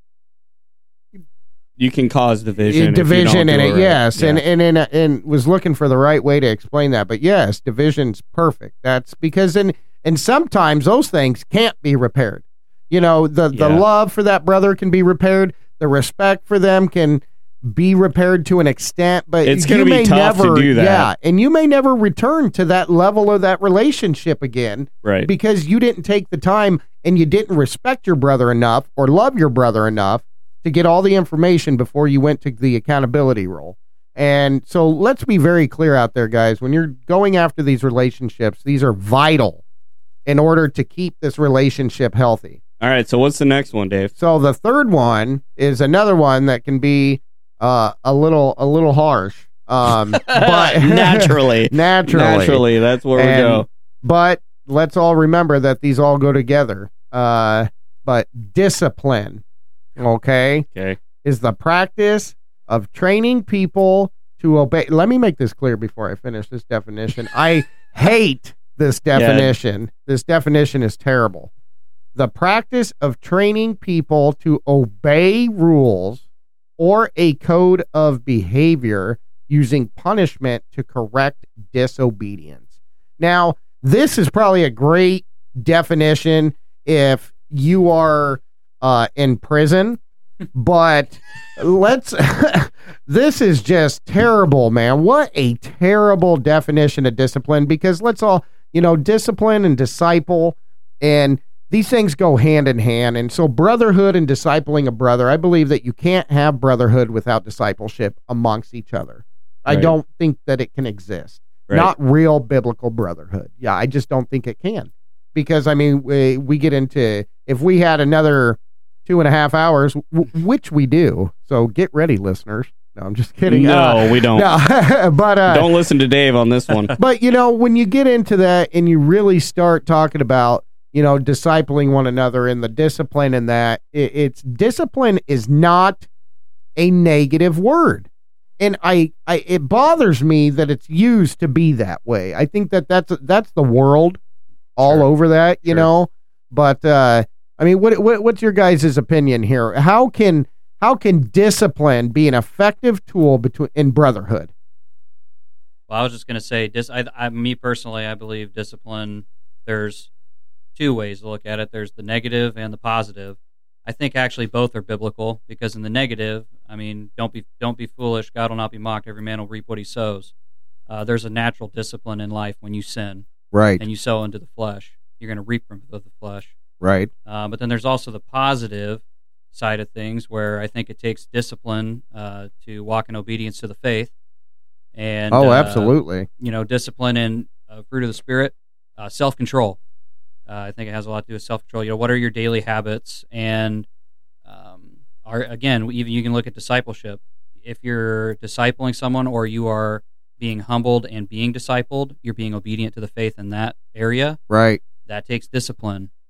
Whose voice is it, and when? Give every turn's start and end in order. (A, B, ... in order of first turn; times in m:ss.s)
0:01.8-0:04.4 A
0:02.7-0:39.6 B
0:13.5-0:13.8 A
0:19.4-0:21.1 A
0:25.0-0:25.3 A
0:40.3-0:42.6 B
0:42.8-0:44.1 A
0:44.2-0:52.6 B
0:50.1-0:53.7 A
0:53.2-0:59.4 B
1:00.0-1:00.7 B
1:01.2-1:11.5 B
1:09.2-1:09.5 A
1:12.2-1:16.2 B
1:16.8-1:22.6 B
1:23.2-1:30.0 B
1:30.6-2:05.7 B
1:49.7-1:49.9 A
2:03.5-2:04.5 A
2:05.5-2:07.0 A
2:07.0-2:16.1 B
2:16.8-2:18.1 B
2:18.6-2:24.2 B
2:24.8-2:34.5 B
2:35.9-2:40.1 C
2:40.8-2:50.3 C
2:50.9-2:53.3 C
2:53.5-2:53.8 B
2:53.8-2:56.6 C
2:56.8-2:57.1 B
2:57.3-3:04.1 C
3:05.0-3:09.8 C
3:05.3-3:06.3 B
3:10.5-3:13.9 C
3:14.5-3:24.4 C
3:24.5-3:24.8 B
3:25.0-3:26.1 C